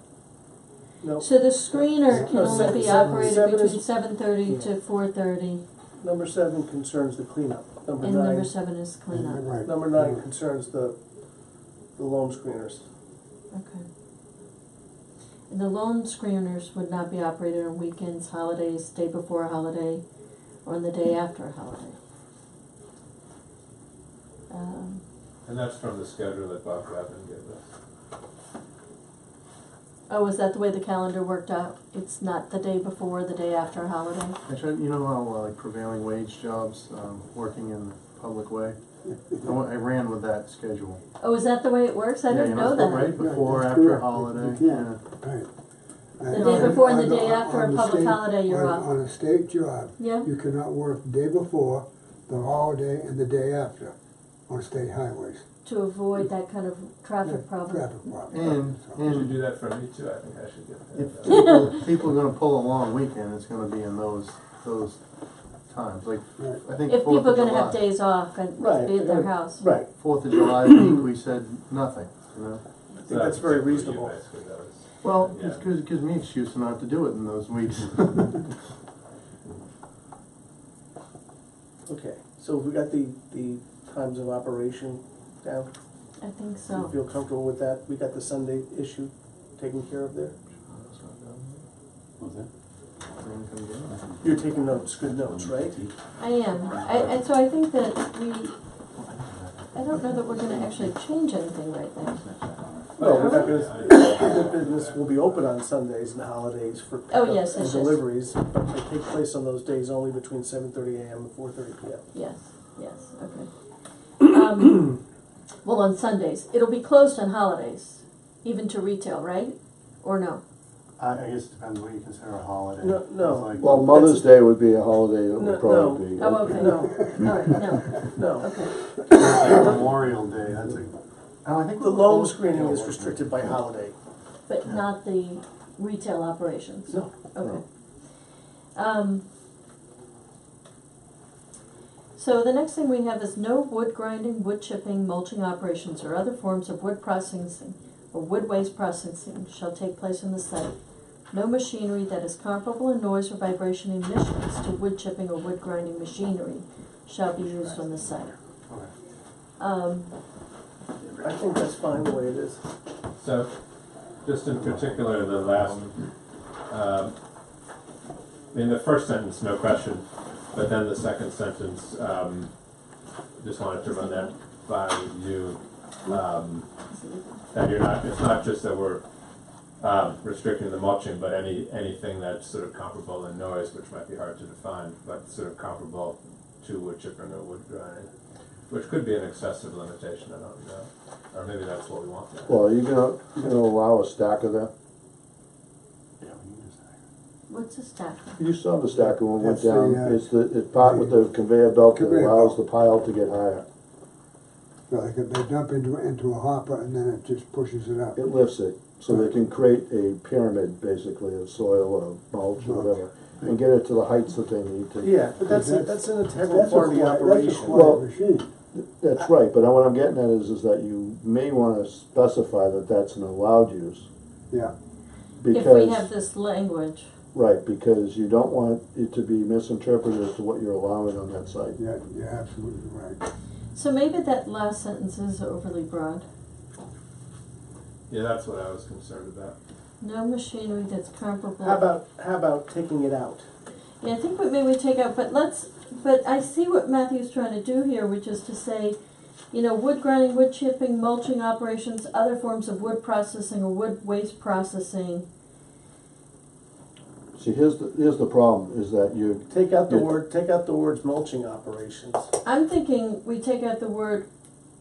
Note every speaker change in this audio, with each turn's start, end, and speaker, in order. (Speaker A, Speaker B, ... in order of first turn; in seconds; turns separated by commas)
Speaker A: 1.0-4.7, Speaker B: 1.2-5.6, Speaker C: 2.1-3.4, Speaker A: 6.0-8.5, Speaker B: 8.0-9.6, Speaker C: 9.1-10.2, Speaker A: 9.6-11.0, Speaker A: 12.0-12.8, Speaker B: 13.5-13.8, Speaker B: 15.5-20.0, Speaker B: 20.6-22.0, Speaker B: 24.5-25.0, Speaker D: 25.4-27.7, Speaker B: 30.1-34.4, Speaker E: 34.5-38.8, Speaker E: 39.4-41.0, Speaker B: 41.2-43.3, Speaker E: 42.3-45.0, Speaker C: 43.1-45.5, Speaker C: 46.2-53.9, Speaker B: 46.3-48.9, Speaker E: 46.4-46.8, Speaker B: 50.0-50.3, Speaker C: 54.5-55.5, Speaker B: 55.6-58.1, Speaker C: 57.2-59.1, Speaker E: 58.3-59.4, Speaker D: 59.0-61.5, Speaker E: 61.0-65.0, Speaker B: 61.3-61.8, Speaker E: 65.7-67.8, Speaker C: 66.4-66.6, Speaker B: 66.8-69.7, Speaker A: 68.6-69.9, Speaker E: 69.9-72.6, Speaker A: 73.0-74.2, Speaker D: 73.0-75.7, Speaker E: 75.0-78.4, Speaker A: 81.9-85.7, Speaker B: 86.2-87.0, Speaker A: 86.7-90.4, Speaker E: 91.1-91.5, Speaker F: 92.2-92.5, Speaker E: 93.2-94.0, Speaker F: 94.0-96.0, Speaker A: 94.2-95.8, Speaker B: 96.2-98.6, Speaker B: 99.7-102.4, Speaker F: 100.0-100.9, Speaker F: 102.3-103.0, Speaker A: 103.0-112.0, Speaker B: 103.0-104.2, Speaker D: 103.1-105.5, Speaker B: 107.1-108.0, Speaker B: 112.1-113.5, Speaker B: 114.2-115.0, Speaker B: 115.6-120.4, Speaker E: 121.0-123.9, Speaker A: 122.8-124.2, Speaker G: 123.6-126.9, Speaker A: 125.4-126.9, Speaker B: 126.2-128.8, Speaker A: 128.1-128.5, Speaker E: 129.1-133.6, Speaker A: 129.4-129.8, Speaker A: 131.8-134.0, Speaker B: 134.5-137.6, Speaker A: 136.9-137.3, Speaker B: 138.8-139.2, Speaker B: 142.2-150.8, Speaker B: 151.3-158.4, Speaker E: 158.7-158.9, Speaker B: 159.6-160.1, Speaker A: 161.2-162.6, Speaker D: 163.2-163.5, Speaker D: 164.2-165.9, Speaker E: 164.5-166.0, Speaker D: 166.7-167.2, Speaker D: 168.5-172.5, Speaker D: 173.4-176.7, Speaker B: 173.8-174.3, Speaker B: 176.9-177.4, Speaker D: 177.5-179.0, Speaker D: 179.8-188.1, Speaker D: 188.7-192.6, Speaker G: 192.5-194.7, Speaker E: 196.2-197.0, Speaker B: 197.5-198.3, Speaker G: 198.4-203.7, Speaker C: 199.0-200.2, Speaker C: 200.7-201.2, Speaker C: 201.9-202.6, Speaker C: 204.9-208.2, Speaker G: 208.2-215.2, Speaker C: 209.1-209.3, Speaker C: 212.6-212.9, Speaker A: 215.0-218.0, Speaker C: 215.4-218.5, Speaker G: 217.7-218.0, Speaker G: 218.7-224.1, Speaker G: 225.4-226.1, Speaker B: 225.5-227.1, Speaker G: 227.3-231.8, Speaker C: 231.8-233.2, Speaker B: 233.7-236.2, Speaker D: 238.1-239.6, Speaker B: 240.0-241.9, Speaker A: 241.6-243.4, Speaker B: 244.0-249.0, Speaker B: 249.5-255.3, Speaker G: 257.4-260.1, Speaker A: 259.5-262.3, Speaker B: 262.4-264.3